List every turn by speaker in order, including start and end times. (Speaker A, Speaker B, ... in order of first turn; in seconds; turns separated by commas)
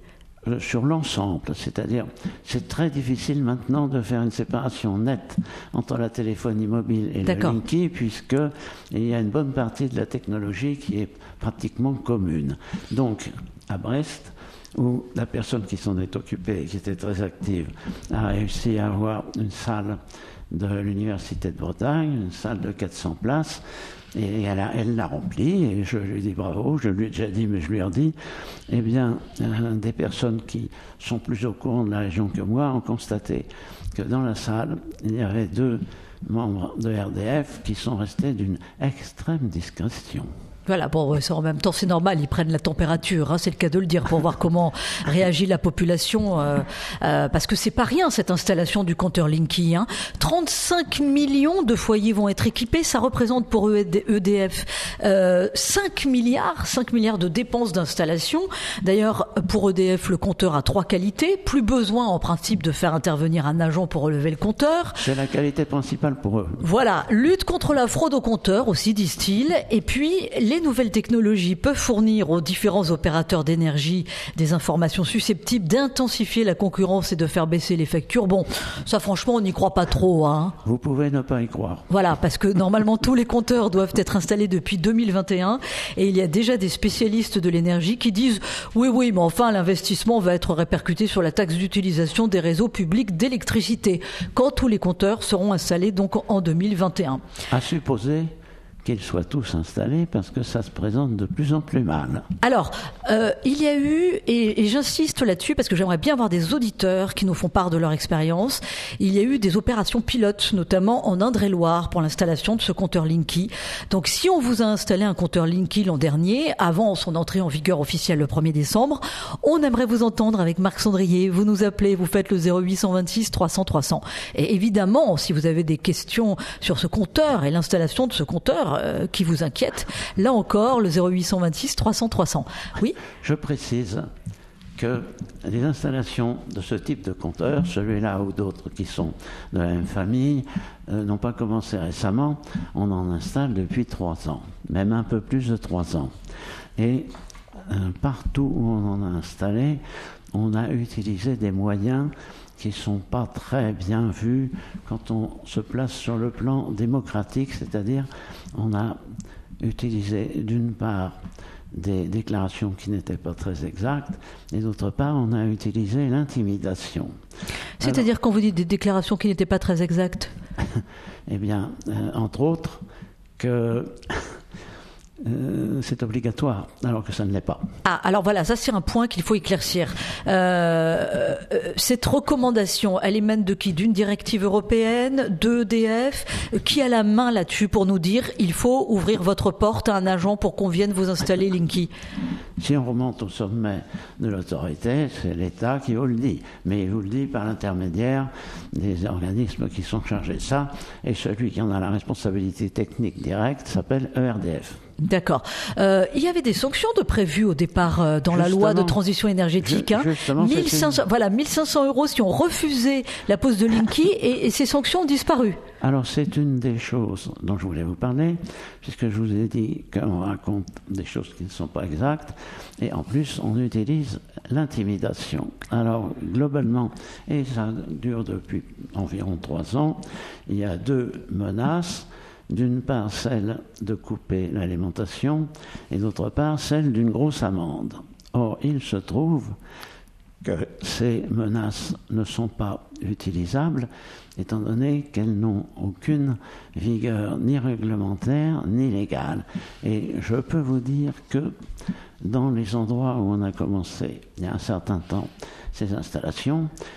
Speaker A: 0.4-23.6, Speaker B: 7.3-7.6, Speaker A: 24.1-28.2, Speaker A: 28.7-40.3, Speaker B: 40.7-65.0, Speaker A: 65.0-66.6, Speaker B: 66.6-80.5, Speaker A: 80.6-81.9, Speaker B: 81.9-97.2, Speaker A: 97.5-102.3, Speaker B: 102.4-133.0, Speaker A: 133.2-134.1, Speaker A: 134.8-146.1, Speaker A: 146.8-149.8, Speaker A: 150.3-159.0, Speaker A: 159.6-161.2, Speaker A: 161.7-167.2, Speaker B: 167.8-170.3, Speaker A: 170.8-172.8, Speaker A: 173.4-174.3, Speaker A: 175.2-177.7, Speaker B: 177.8-191.9, Speaker A: 192.6-204.8, Speaker B: 205.0-215.6, Speaker A: 208.3-209.0, Speaker A: 209.6-211.0, Speaker A: 215.8-239.6, Speaker A: 240.4-251.6, Speaker A: 252.2-256.7